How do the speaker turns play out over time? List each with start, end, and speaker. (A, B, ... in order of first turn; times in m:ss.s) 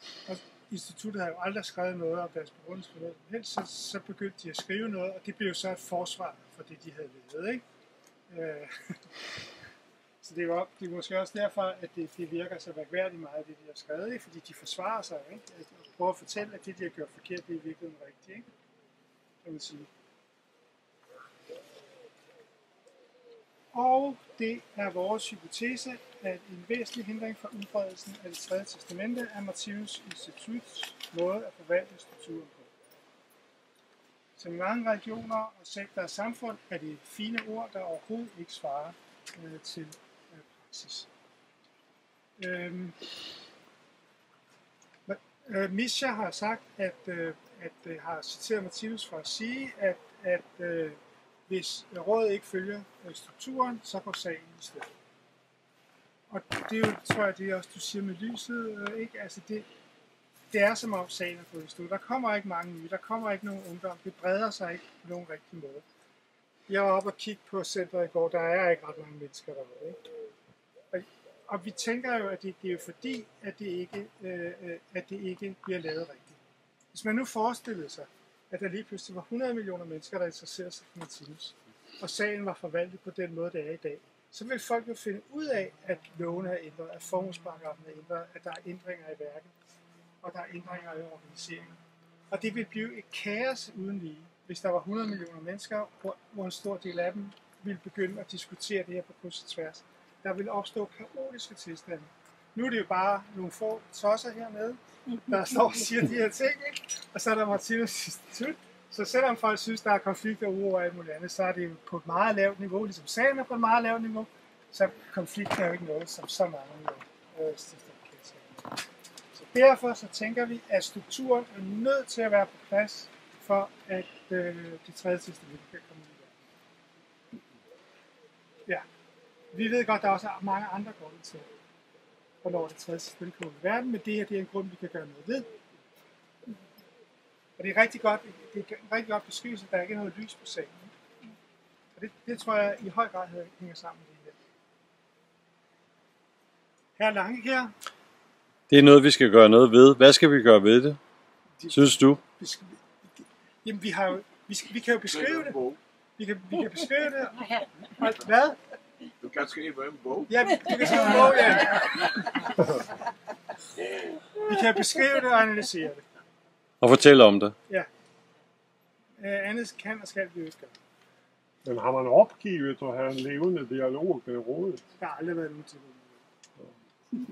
0:00.3-0:07.6 A
0:08.3-0:09.2 A
0:10.2-0:18.5 A
0:19.4-0:19.9 A
0:23.7-0:32.7 A
0:34.4-0:41.1 A
0:42.4-0:43.0 A
0:45.1-0:54.9 A
0:56.3-0:59.7 A
1:00.5-1:05.8 A
1:06.7-1:10.0 A
1:10.9-1:16.4 A
1:16.9-1:29.5 A
1:30.2-1:58.8 A
1:59.4-2:06.4 A
2:09.5-2:11.5 A
2:12.4-2:15.5 A
2:17.6-2:20.9 A
2:22.0-2:24.4 A
2:27.0-2:27.7 A
2:28.7-2:31.0 B
2:31.6-2:32.8 A
2:31.7-2:32.2 B
2:33.6-2:35.6 A
2:35.0-2:35.8 C
2:36.2-2:37.4 A
2:38.0-2:38.6 A
2:39.2-2:40.5 C
2:40.3-2:42.1 A
2:44.4-2:46.0 A
2:46.8-2:47.6 B
2:49.2-2:50.8 A
2:51.6-2:54.8 D
2:55.0-2:56.2 A